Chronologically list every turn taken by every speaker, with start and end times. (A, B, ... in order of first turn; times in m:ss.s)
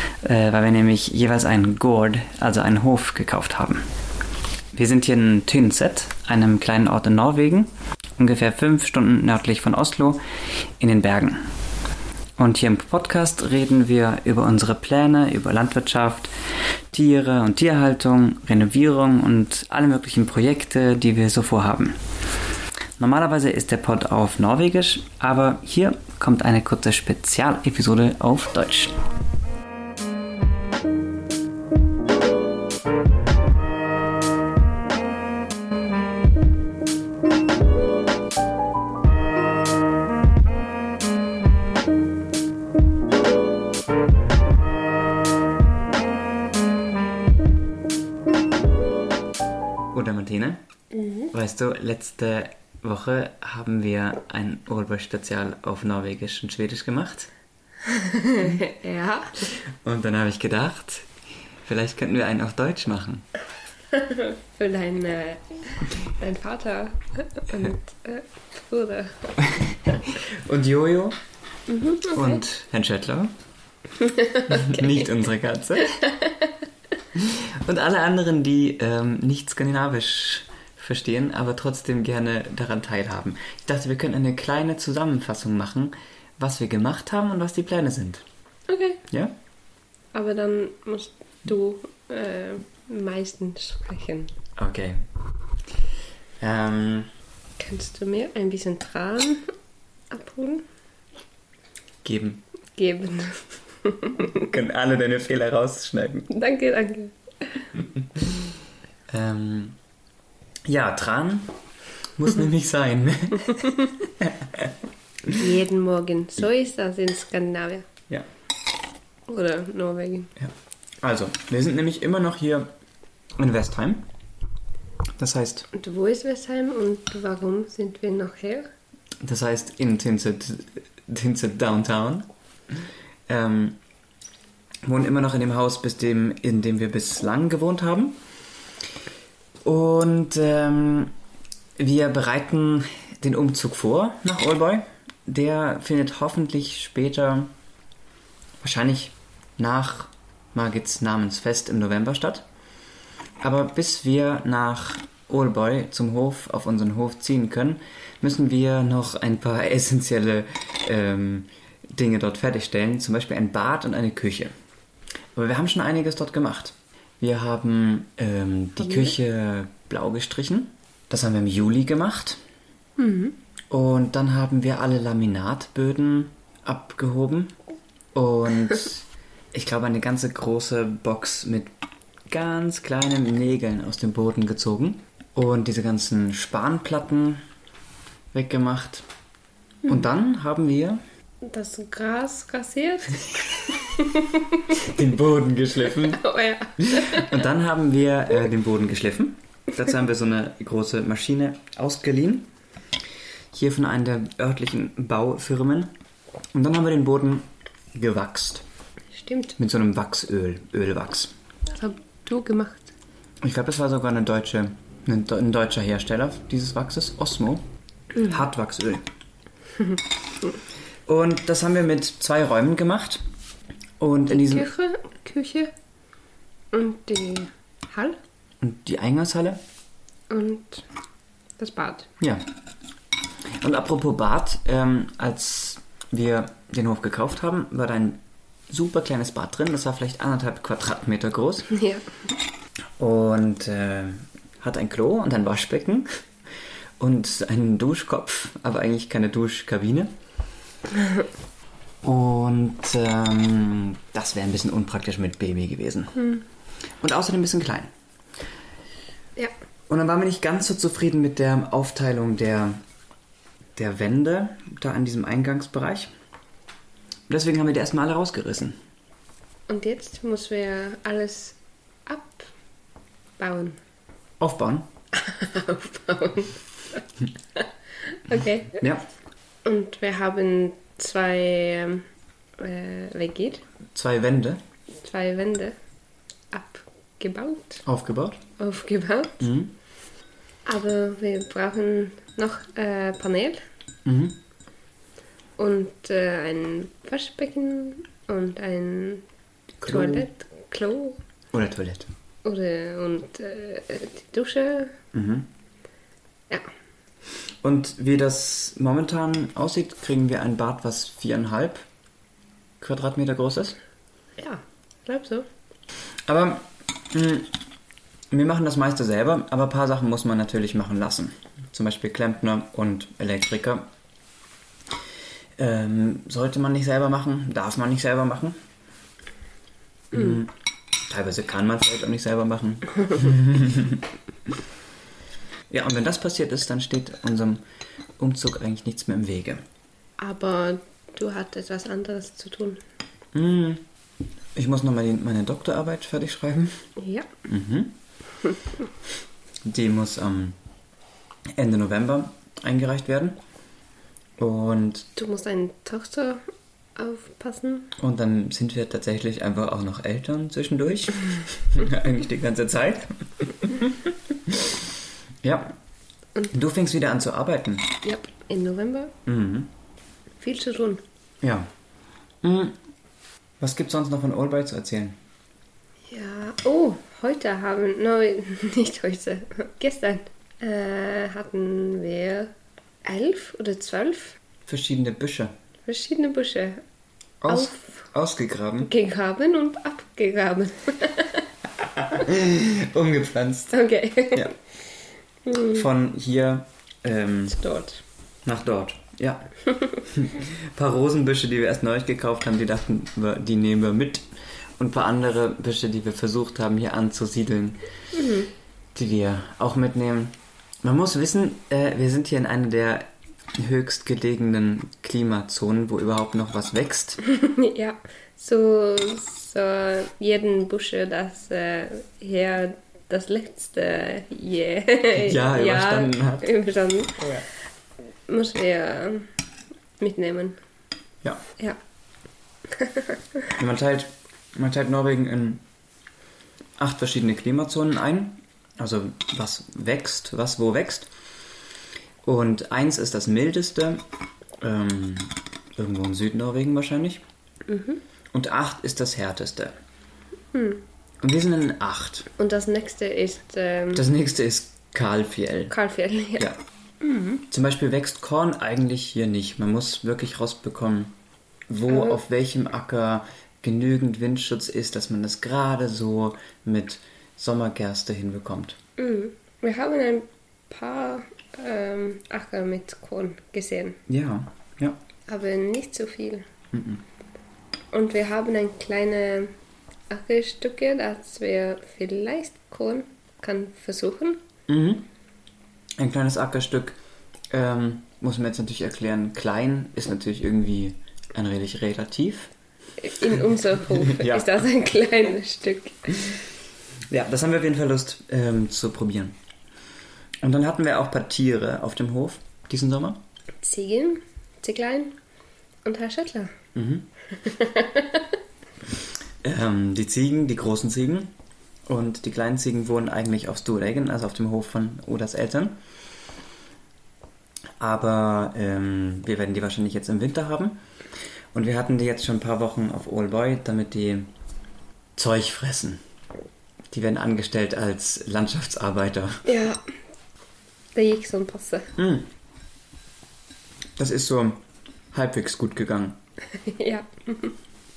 0:00.2-0:03.8 A
0:04.7-0:10.2 A
0:10.8-0:11.4 A
0:12.4-0:16.3 A
0:16.9-0:22.0 A
0:23.0-0:28.9 A
0:49.9-0:50.6 A
0:50.9-0:51.3 B
0:51.3-0:57.3 A
0:57.8-0:59.4 B
0:59.5-1:01.1 A
1:01.6-1:03.3 A
1:03.9-1:09.5 B
1:09.4-1:11.2 A
1:11.7-1:12.4 B
1:12.1-1:13.3 A
1:14.0-1:15.0 B
1:14.4-1:16.0 A
1:15.8-1:16.5 B
1:17.1-1:28.2 A
1:28.7-1:29.0 B
1:29.1-1:29.3 A
1:30.1-1:34.3 B
1:34.6-1:35.0 A
1:36.4-1:37.1 A
1:37.6-1:39.4 B
1:40.1-1:40.6 B
1:42.0-1:42.4 A
1:42.8-1:44.4 B
1:44.3-1:46.3 A
1:46.3-1:47.7 B
1:49.1-1:49.8 A
1:50.6-1:51.5 A
1:52.2-1:54.7 A
1:55.3-1:57.9 B
1:59.3-2:00.3 B
2:00.4-2:02.7 A
2:03.4-2:04.1 A
2:05.2-2:05.7 A
2:05.7-2:08.7 B
2:09.2-2:12.3 A
2:13.3-2:13.8 A
2:14.8-2:18.2 A
2:19.6-2:21.1 A
2:21.8-2:27.5 A
2:28.6-2:32.4 A
2:33.4-2:44.5 A
2:45.3-2:52.4 A
2:48.8-2:49.2 B
2:53.0-2:53.4 B
2:53.7-2:57.5 A
2:58.1-3:01.7 A
3:02.3-3:07.4 A
3:08.3-3:09.0 A
3:09.8-3:11.0 A
3:11.4-3:14.8 B
3:14.7-3:16.2 A
3:15.8-3:17.4 B
3:16.8-3:22.5 A
3:23.5-3:25.9 A
3:26.5-3:28.6 A
3:29.2-3:29.5 B
3:29.6-3:31.3 A
3:31.7-3:32.9 B
3:33.4-3:37.6 A
3:38.2-3:39.0 A
3:41.1-3:43.2 A
3:44.0-3:44.7 A
3:44.3-3:45.7 B
3:46.7-3:48.2 B
3:48.6-3:49.6 A
3:50.3-3:50.8 B
3:51.6-3:52.1 B
3:52.2-3:52.4 A
3:53.6-4:01.7 A
4:01.7-4:02.1 B
4:03.0-4:06.1 A
4:07.0-4:10.1 A
4:10.9-4:11.2 B
4:12.0-4:16.3 A
4:16.2-4:16.4 B
4:17.0-4:17.9 A
4:19.9-4:22.8 A
4:23.8-4:26.1 A
4:27.3-4:28.8 A
4:29.7-4:32.5 B
4:33.4-4:33.8 B
4:34.4-4:34.9 A
4:35.1-4:37.0 B
4:37.6-4:38.8 B
4:38.8-4:39.0 A
4:39.6-4:42.0 B
4:42.6-4:43.6 B
4:43.9-4:44.6 A
4:45.0-4:45.7 B
4:46.5-4:47.8 B
4:47.8-4:48.4 A
4:48.6-4:49.5 B
4:49.4-4:49.7 A
4:50.6-4:53.6 B
4:54.0-4:54.4 A
4:55.6-4:59.2 B
4:59.8-5:00.3 A
4:59.8-5:01.2 B
5:01.5-5:02.1 A
5:02.4-5:04.9 B
5:05.1-5:05.5 A
5:07.6-5:11.8 A
5:12.8-5:13.8 A
5:14.4-5:15.5 B
5:16.3-5:17.5 A
5:18.3-5:23.9 A
5:25.6-5:28.6 A
5:30.1-5:30.5 A
5:31.1-5:34.0 A
5:35.7-5:37.6 A
5:38.2-5:39.6 A
5:40.2-5:42.8 B
5:43.3-5:43.8 A
5:44.6-5:46.8 A
5:47.0-5:47.3 B
5:47.5-5:48.0 A
5:49.6-5:50.6 A
5:51.5-5:53.4 A
5:54.4-5:55.1 A
5:55.2-5:56.4 B
5:57.0-5:57.9 B
5:58.0-6:04.7 A
6:05.4-6:05.7 A
6:06.5-6:08.0 A
6:08.0-6:09.1 B
6:09.2-6:09.7 A
6:10.4-6:11.0 B
6:11.4-6:11.7 A
6:12.4-6:12.8 A
6:13.6-6:15.2 A
6:16.1-6:22.5 B
6:23.0-6:24.4 B
6:24.7-6:25.5 A
6:25.8-6:26.8 B
6:27.4-6:28.9 A
6:27.5-6:28.0 B
6:28.8-6:31.4 B
6:31.8-6:33.8 A
6:33.7-6:34.5 B
6:35.4-6:35.8 B
6:35.6-6:37.6 A
6:37.5-6:38.0 B
6:38.4-6:44.2 A
6:44.8-6:47.8 A
6:48.1-6:48.5 B
6:48.9-6:57.2 A
6:57.2-7:07.2 B
7:05.1-7:06.5 A
7:07.2-7:07.5 A
7:08.3-7:09.3 B
7:10.0-7:10.6 B
7:12.7-7:13.4 B
7:13.5-7:15.6 A
7:16.8-7:21.1 A
7:22.2-7:24.0 A
7:24.6-7:27.2 A
7:27.7-7:28.0 B
7:28.3-7:29.7 A
7:30.5-7:30.8 B
7:31.2-7:32.3 A
7:32.4-7:34.0 B
7:33.9-7:35.7 A
7:35.7-7:36.5 B
7:37.0-7:37.4 B
7:37.5-7:41.1 A
7:41.7-7:48.8 A
7:41.9-7:42.2 B
7:49.0-7:54.0 B
7:54.1-7:55.0 A
7:55.3-7:56.4 B
7:56.7-7:57.0 A
7:57.9-7:59.5 B
8:00.1-8:04.4 B
8:04.7-8:05.1 A
8:06.0-8:07.0 A
8:07.5-8:12.5 A
8:13.0-8:16.4 B
8:13.9-8:14.6 A
8:17.1-8:19.4 A
8:20.4-8:23.2 A
8:23.6-8:25.2 B
8:25.8-8:26.5 B
8:26.7-8:27.1 A
8:27.3-8:28.4 B
8:29.4-8:31.3 A
8:31.8-8:35.8 A
8:37.8-8:40.8 A
8:41.5-8:44.3 A
8:45.2-8:46.0 A
8:46.9-8:49.4 A
8:49.4-8:49.8 B
8:50.9-8:51.9 B
8:52.0-8:52.3 A
8:54.0-8:54.6 A
8:55.1-8:56.2 A
8:56.6-8:57.5 B